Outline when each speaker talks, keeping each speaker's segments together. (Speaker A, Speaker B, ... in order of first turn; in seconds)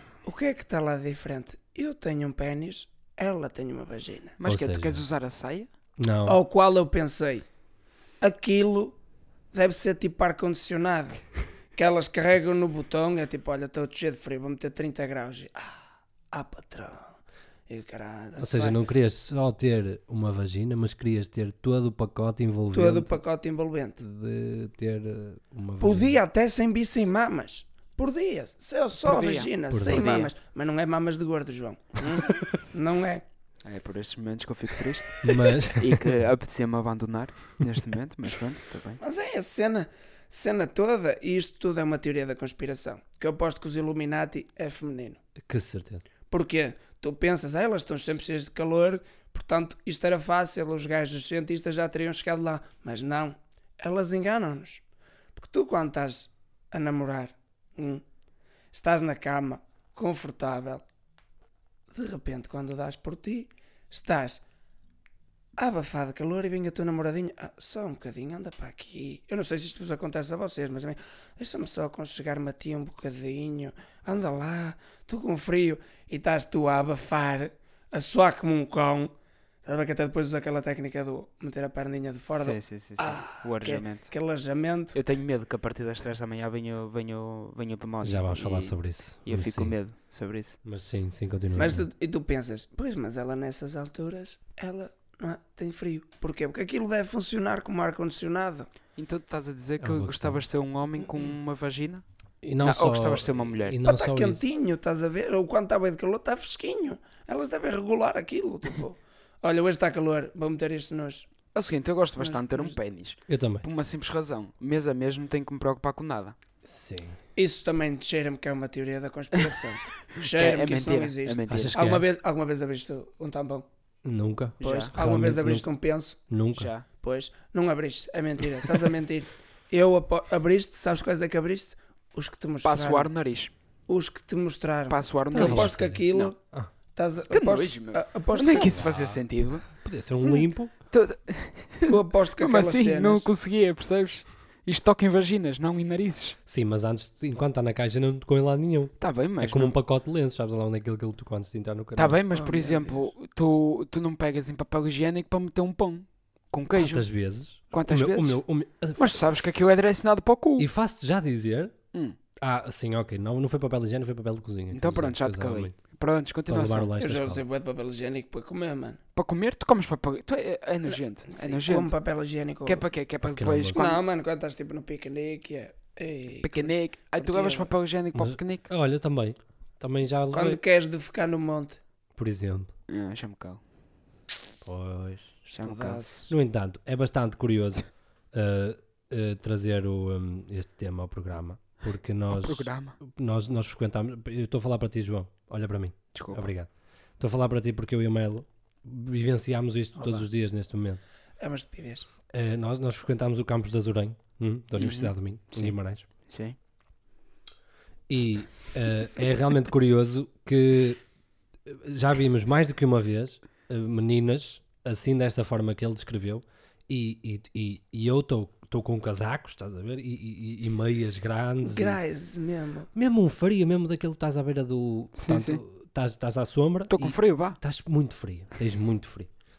Speaker A: 0.2-4.4, 6.3-7.5, 8.2-9.0, 9.5-11.2, 11.8-18.8, 22.7-24.0, 25.8-33.2, 39.0-45.2, 46.3-54.8, 55.4-58.0, 58.7-60.8, 61.9-64.4, 65.6-79.1, 79.7-85.0, 91.5-98.7, 103.8-111.3, 112.2-112.8, 117.4-123.7, 124.6-126.2, 127.0-133.1, 133.9-136.4, 136.9-138.8, 141.9-143.3, 152.3-153.1, 167.0-169.0, 171.3-172.8, 173.8-177.7, 180.3-181.8, 185.5-186.3, 200.0-200.3, 201.4-202.1, 221.6-222.9
Speaker B: 4.4-5.7, 29.0-30.3, 33.6-39.0, 82.3-84.1, 84.9-90.6, 99.0-102.0, 102.6-103.8, 111.5-116.4, 120.2-121.8, 124.6-124.9, 126.5-126.8, 132.6-133.5, 134.9-136.3, 137.3-139.7, 140.2-146.4, 149.0-149.8, 152.0-157.1, 157.7-158.4, 159.0-160.7, 164.7-166.9, 169.2-171.9, 172.7-174.0, 176.4-178.7, 182.9-183.6, 185.6-186.0, 192.3-193.0, 196.1-196.5, 204.8-205.8, 206.3-206.6, 225.2-225.6, 226.9-227.6
Speaker C: 4.4-5.0, 6.0-6.4, 18.4-23.2, 24.0-26.2, 29.7-30.2, 35.2-36.1, 45.4-46.0, 88.0-89.8, 90.6-91.9, 99.8-100.4, 102.4-104.4, 113.3-113.7, 116.6-117.2, 121.5-122.1, 124.0-125.7, 126.3-126.7, 135.3-136.7, 138.5-140.7, 146.5-152.2, 156.8-159.3, 160.6-161.7, 162.4-165.8, 166.5-167.4, 173.2-173.9, 178.1-180.6, 182.2-182.7, 184.6-185.3, 186.3-196.7, 197.2-201.0, 202.3-206.1, 208.1-211.0, 211.7-222.0, 222.9-229.3